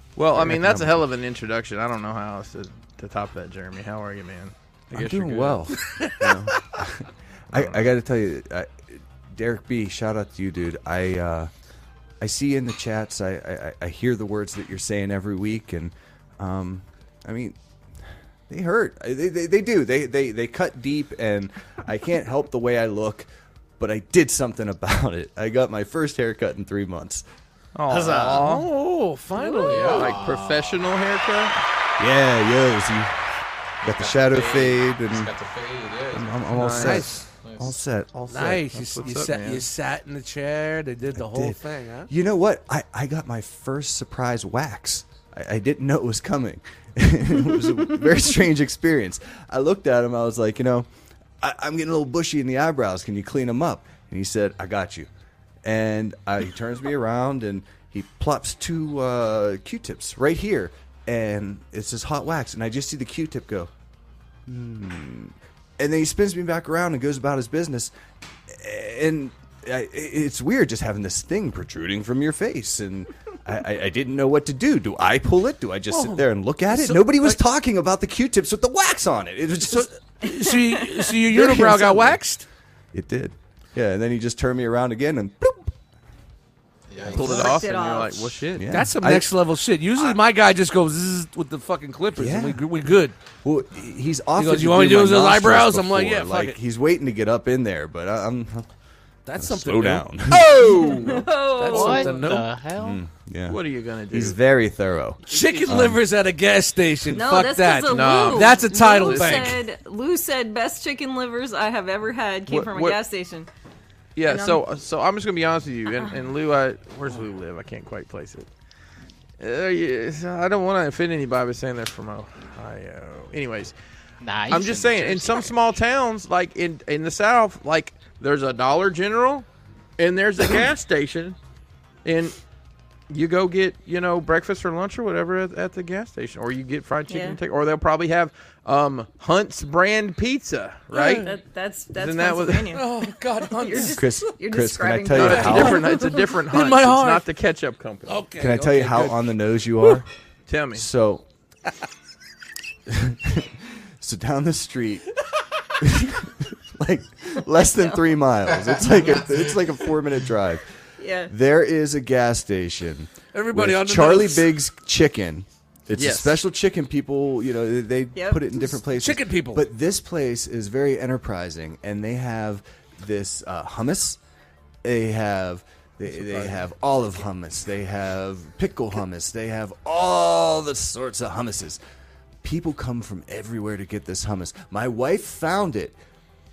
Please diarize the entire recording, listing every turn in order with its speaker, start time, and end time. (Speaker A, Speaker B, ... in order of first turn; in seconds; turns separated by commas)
Speaker A: 0.1-5.7, Speaker B: 0.2-1.0, Speaker B: 4.9-11.5, Speaker C: 5.7-6.6, Speaker A: 7.5-7.8, Speaker B: 12.2-17.6, Speaker B: 18.5-23.3, Speaker B: 23.8-27.2, Speaker A: 27.7-28.7, Speaker B: 27.9-28.5, Speaker C: 28.2-30.1, Speaker D: 29.4-30.0, Speaker E: 29.6-30.9, Speaker A: 29.8-31.5, Speaker B: 32.0-33.1, Speaker B: 33.8-35.3, Speaker E: 33.8-37.7, Speaker B: 36.1-38.5, Speaker A: 36.5-37.1, Speaker C: 36.6-37.2, Speaker A: 38.1-39.7, Speaker C: 38.3-42.1, Speaker B: 41.1-50.9, Speaker B: 51.4-55.1, Speaker B: 55.6-63.7, Speaker B: 64.5-67.9, Speaker B: 68.5-79.9, Speaker C: 75.9-77.4, Speaker C: 79.7-82.4, Speaker D: 80.2-81.1, Speaker B: 81.3-82.2, Speaker B: 82.9-85.7, Speaker E: 86.9-87.6, Speaker B: 87.1-87.5, Speaker A: 87.1-88.8, Speaker D: 87.2-88.4, Speaker B: 88.5-89.3, Speaker C: 88.7-93.1, Speaker B: 92.1-92.7, Speaker B: 93.4-98.7, Speaker C: 94.4-96.6, Speaker C: 99.2-100.2, Speaker B: 99.3-100.6, Speaker A: 100.3-102.5, Speaker D: 100.8-102.1, Speaker C: 101.7-102.5, Speaker F: 101.7-103.0, Speaker B: 102.7-106.0, Speaker A: 103.5-104.4, Speaker C: 105.2-109.6, Speaker A: 105.3-105.7, Speaker D: 107.1-113.5, Speaker A: 107.9-109.5, Speaker A: 112.5-113.0, Speaker A: 114.1-118.5, Speaker D: 114.2-114.6, Speaker A: 119.4-123.7, Speaker F: 124.2-125.7, Speaker A: 124.5-129.4, Speaker A: 130.0-131.4, Speaker A: 132.0-132.4, Speaker A: 133.1-141.3, Speaker D: 137.1-137.4, Speaker D: 140.9-146.3, Speaker C: 140.9-141.3, Speaker A: 141.9-142.8, Speaker C: 142.7-144.2, Speaker B: 143.9-145.8, Speaker A: 145.1-148.2, Speaker C: 145.2-147.3, Speaker C: 148.0-150.0, Speaker B: 148.4-150.1, Speaker A: 150.5-150.8, Speaker B: 150.7-151.2, Speaker B: 152.9-155.1, Speaker B: 155.8-160.6, Speaker D: 157.7-158.0, Speaker E: 158.6-159.5, Speaker D: 161.0-161.3, Speaker B: 161.3-174.2, Speaker C: 163.3-164.5, Speaker A: 165.9-166.3, Speaker D: 168.1-168.7, Speaker C: 168.9-169.7, Speaker B: 174.8-181.8, Speaker B: 182.4-186.0